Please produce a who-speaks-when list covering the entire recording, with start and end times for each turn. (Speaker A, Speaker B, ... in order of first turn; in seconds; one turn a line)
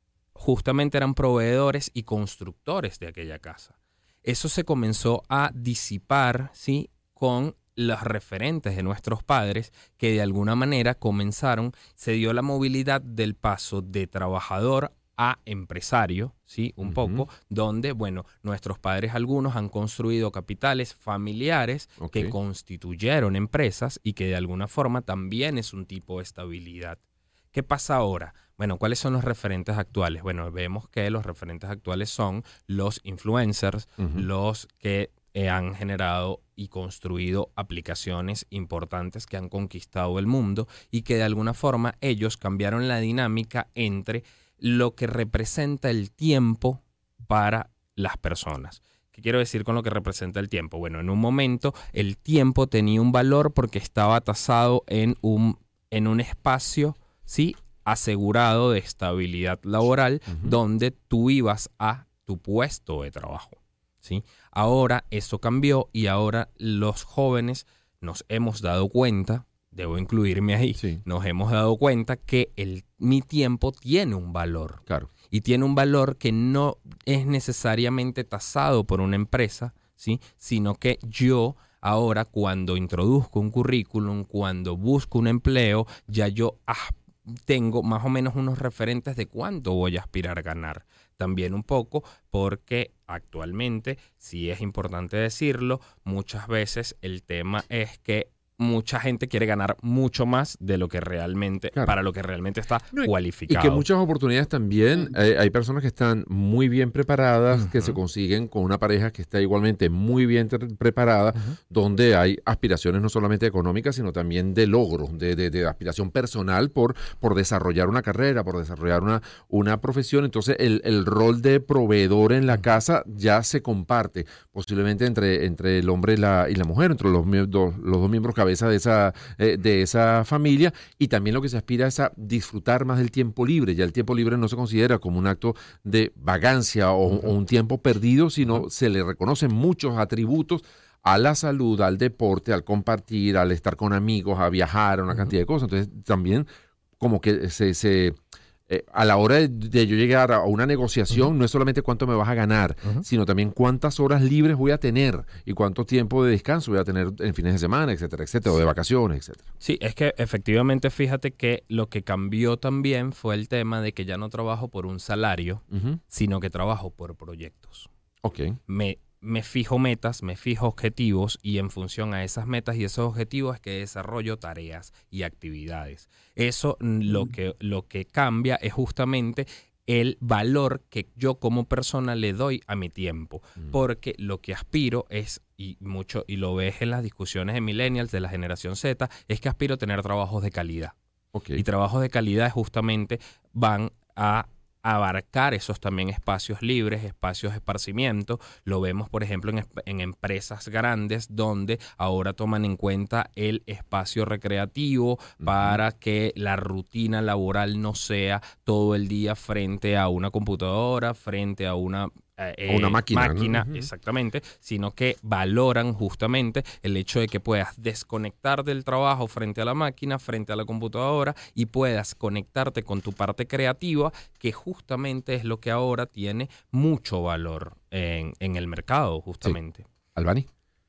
Speaker A: 0.3-27.0
Speaker B: 16.8-17.2
Speaker B: 22.0-22.3
Speaker A: 27.5-103.8
Speaker B: 34.0-34.3
Speaker B: 60.3-60.5
Speaker B: 102.9-146.5
Speaker A: 107.5-108.0
Speaker B: 147.0-148.2
Speaker B: 148.7-159.4
Speaker A: 159.6-167.9
Speaker B: 165.7-166.0
Speaker B: 168.2-168.6
Speaker A: 168.7-190.9
Speaker B: 191.3-191.6
Speaker A: 191.6-229.9
Speaker B: 205.4-205.8
Speaker B: 212.7-213.9
Speaker B: 230.2-230.5